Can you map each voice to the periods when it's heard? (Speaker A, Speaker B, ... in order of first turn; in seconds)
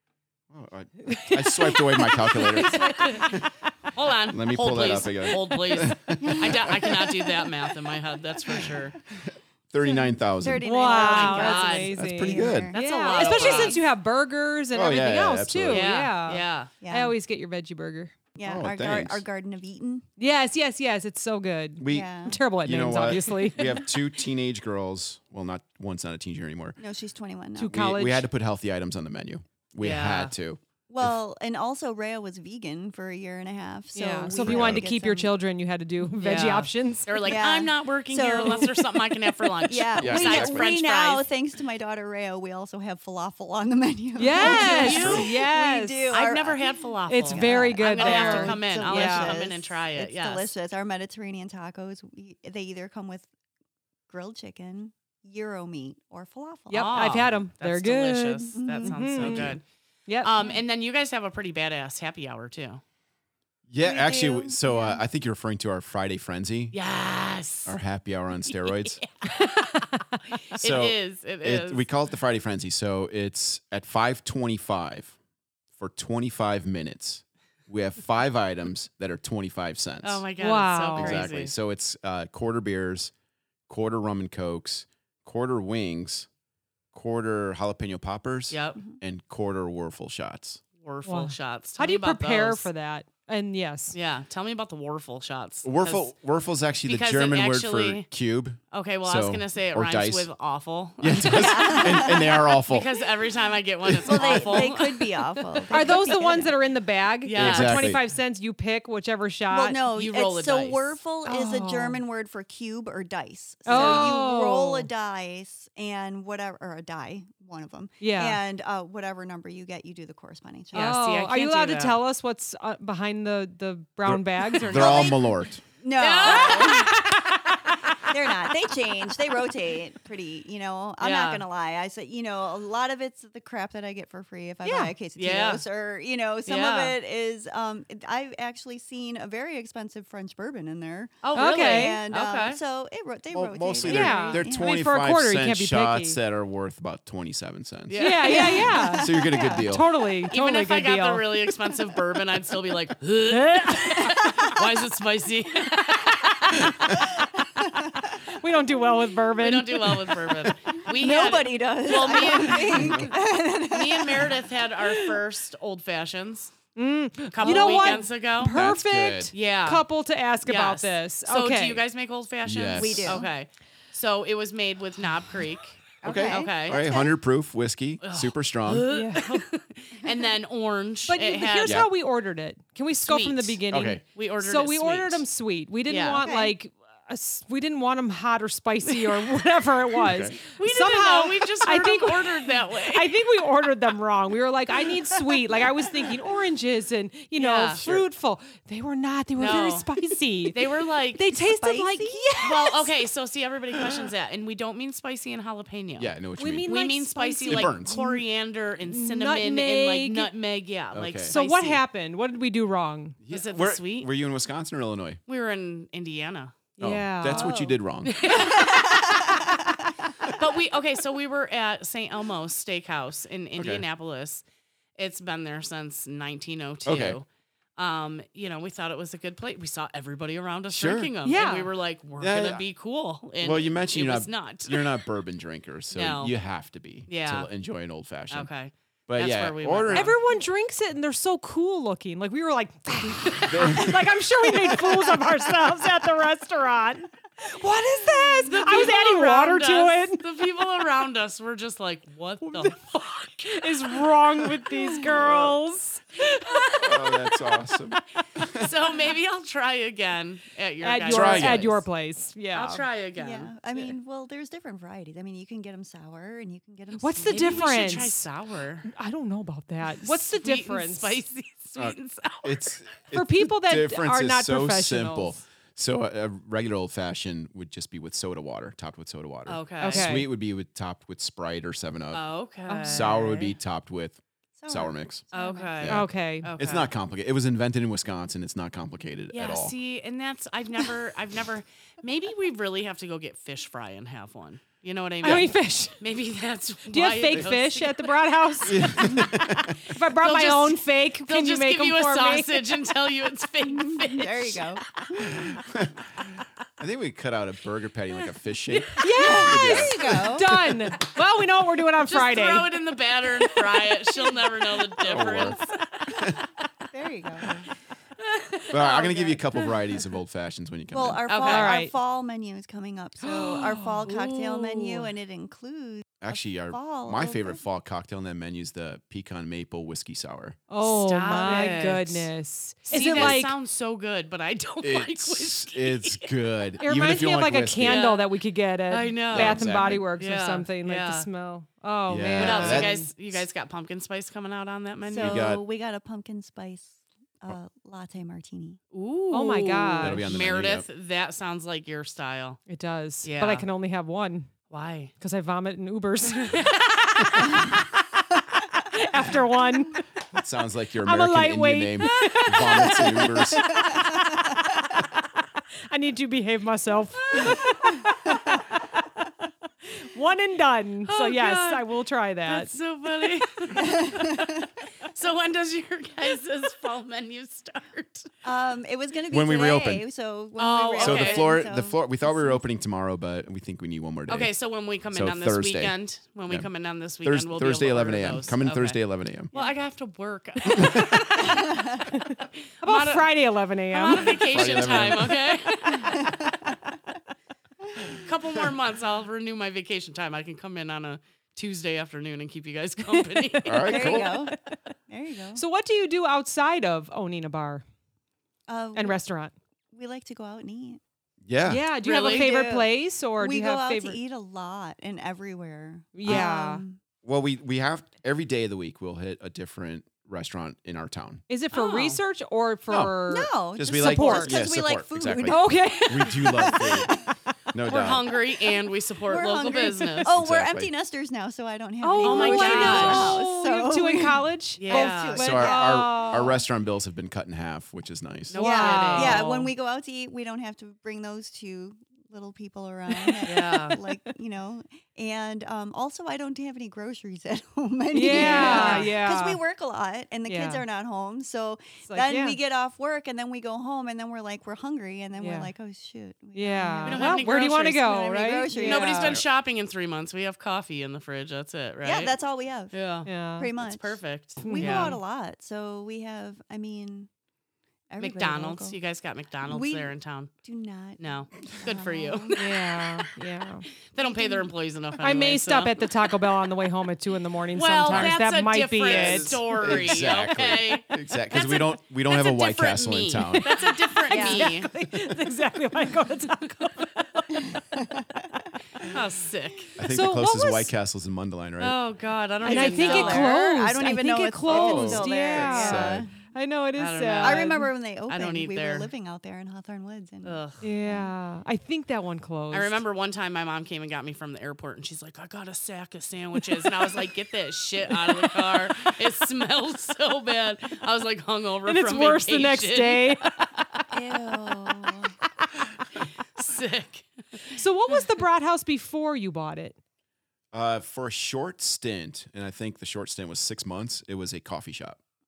Speaker A: 0.5-3.5, 4.3-7.5, 8.4-10.7, 11.9-12.7, 14.7-15.9, 18.4-19.2, 21.8-26.8, 27.7-31.2, 34.4-34.9, 40.0-40.7, 44.8-45.2, 59.2-59.6, 63.7-66.8, 67.7-69.0, 70.6-75.1, 75.8-80.2, 80.9-83.1, 83.7-86.3, 86.9-90.6, 95.6-100.3, 101.0-102.9, 103.8-104.7, 107.3-108.0, 124.0-125.6, 143.3-149.9, 156.6-156.9, 162.7-163.1, 168.4-169.3, 172.4-173.3, 176.0-178.9, 183.7-184.0, 190.0-190.3, 197.8-198.1, 206.0-206.7, 207.5-208.0, 210.9-211.3, 213.2-215.2, 216.8-218.2, 223.6-223.8, 226.8-227.2, 230.7-231.1, 232.2-232.6, 233.4-238.5, 239.1-240.1, 243.4-244.1, 256.8-258.7, 261.1-261.8, 271.8-282.2, 282.9-285.2, 285.8-289.7, 298.7-299.9, 305.2-306.0, 306.8-310.8, 315.1-315.6, 318.7-321.2, 326.2-330.6, 333.0-333.4, 334.8-338.0, 339.3-340.1, 342.1-343.4, 345.1-345.6, 350.0-350.9, 360.3-363.9, 379.3-380.0, 381.0-384.5, 385.1-385.9, 387.2-389.5, 390.7-391.1, 394.4-395.4, 403.6-404.4, 411.4-411.8, 417.2-421.4, 422.9-423.1, 423.8-428.3, 430.2-430.9, 432.9-433.3, 435.4-438.6, 478.1-478.4, 479.0-483.7, 490.0-492.0, 494.6-496.2, 520.7-525.2
Speaker B: 1.1-3.4, 10.6-18.1, 20.2-23.9, 27.6-28.3, 33.9-37.1, 44.1-46.1, 47.1-49.4, 56.7-60.3, 69.3-70.2, 80.4-81.2, 91.0-94.0, 105.7-109.8, 111.2-112.0, 113.7-114.9, 118.0-118.4, 120.7-125.1, 134.6-134.9, 141.3-142.0, 143.8-146.2, 148.0-151.3, 153.3-154.2, 158.3-160.1, 166.7-171.8, 178.9-179.4, 181.1-202.8, 206.4-208.2, 208.9-210.3, 211.3-213.2, 216.8-217.6, 231.2-231.7, 239.9-250.2, 252.4-257.6, 260.8-262.9, 267.0-268.2, 268.8-271.2, 273.1-275.4, 279.8-280.3, 282.7-283.5, 285.9-286.5, 295.2-296.0, 296.9-299.3, 299.8-302.5, 309.0-312.7, 314.2-314.8, 321.4-321.9, 330.7-333.6, 336.8-343.1, 349.3-350.3, 352.7-354.5, 355.2-357.7, 358.8-360.0, 361.0-364.8, 365.9-369.1, 369.9-372.7, 391.3-394.9, 395.9-396.3, 403.9-404.8, 405.5-407.8, 408.9-409.5, 411.6-414.2, 416.1-416.8, 421.5-424.6, 425.4-427.2, 432.0-436.6, 438.6-439.5, 443.1-443.9, 448.1-449.6, 450.5-450.8, 452.1-452.6, 455.4-455.7, 456.5-459.4, 463.2-463.7, 464.6-465.2, 472.6-473.9, 475.2-479.6, 483.6-487.8, 490.1-490.9, 492.6-497.9, 500.8-503.0, 508.2-508.8, 511.9-513.5, 517.7-520.0
Speaker C: 2.9-3.3, 3.9-9.0, 10.8-11.9, 12.7-13.8, 15.7-16.7, 29.8-30.3, 36.2-41.3, 44.3-45.3, 46.1-50.5, 56.7-59.6, 60.2-62.8, 66.7-67.8, 68.5-71.9, 80.0-81.5, 88.5-88.8, 90.8-92.7, 93.9-96.1, 96.8-98.1, 98.7-105.7, 107.2-108.0, 109.9-111.0, 113.7-114.1, 120.7-122.0, 126.0-127.8, 131.0-131.4, 135.2-135.6, 136.4-136.9, 141.2-142.6, 147.9-148.6, 150.3-156.9, 159.4-163.2, 163.7-166.5, 167.3-168.6, 169.3-169.8, 170.4-176.9, 178.0-181.8, 183.0-185.2, 185.9-186.2, 190.5-193.2, 197.3-197.8, 199.4-199.9, 200.4-201.2, 202.4-211.8, 213.3-214.1, 215.3-216.7, 218.0-219.5, 220.3-224.4, 224.9-227.2, 227.8-235.0, 235.9-236.3, 237.1-237.5, 238.3-240.2, 248.4-254.0, 258.6-261.8, 262.5-263.9, 267.3-268.9, 269.9-272.7, 279.4-280.1, 282.1-283.2, 285.3-286.9, 289.3-298.7, 300.2-304.9, 308.7-309.0, 312.1-316.4, 318.2-319.9, 321.3-321.7, 323.3-325.1, 330.8-332.3, 332.9-336.4, 337.8-338.3, 338.9-341.3, 342.4-345.4, 348.9-352.6, 353.2-353.6, 354.7-355.1, 356.3-356.8, 362.0-363.4, 367.3-367.6, 371.1-371.9, 372.5-378.3, 380.6-381.6, 384.3-391.6, 392.8-393.3, 393.9-396.4, 398.1-404.1, 412.0-412.7, 421.7-422.2, 427.9-430.4, 432.2-433.4, 434.8-435.5, 438.5-439.7, 443.4-444.0, 448.3-449.1, 457.0-458.0, 458.7-462.3, 462.9-465.2, 468.2-470.5, 471.2-473.3, 474.1-476.1, 477.7-484.9, 489.0-489.9, 491.8-493.5, 497.0-499.1, 500.4-500.8, 502.7-513.8, 516.5-517.3
Speaker D: 10.4-13.8, 16.8-17.1, 18.3-20.1, 21.9-22.4, 26.8-27.8, 30.9-35.3, 37.2-39.1, 39.6-53.3, 54.1-57.0, 58.5-59.4, 63.8-65.0, 101.2-102.4, 104.0-106.5, 109.5-121.0, 124.6-127.1, 128.1-144.7, 148.2-149.7, 157.6-157.9, 160.9-164.3, 167.4-168.0, 172.8-173.3, 176.0-177.1, 186.1-186.5, 201.3-202.8, 217.3-219.7, 263.1-267.6, 284.6-285.9, 303.6-305.5, 309.1-310.5, 316.9-317.7, 320.9-327.6, 331.2-331.7, 345.1-348.8, 363.7-364.6, 373.8-374.5, 378.4-382.6, 391.4-392.0, 396.0-396.7, 403.8-404.5, 405.1-405.6, 408.7-409.2, 409.9-411.0, 412.1-417.0, 423.3-425.8, 429.3-436.3, 438.6-459.4, 462.0-463.0, 463.6-467.3, 468.1-469.0, 469.6-472.5, 474.2-474.7, 484.3-484.7, 487.8-488.4, 492.6-496.3, 497.4-501.3, 514.1-515.3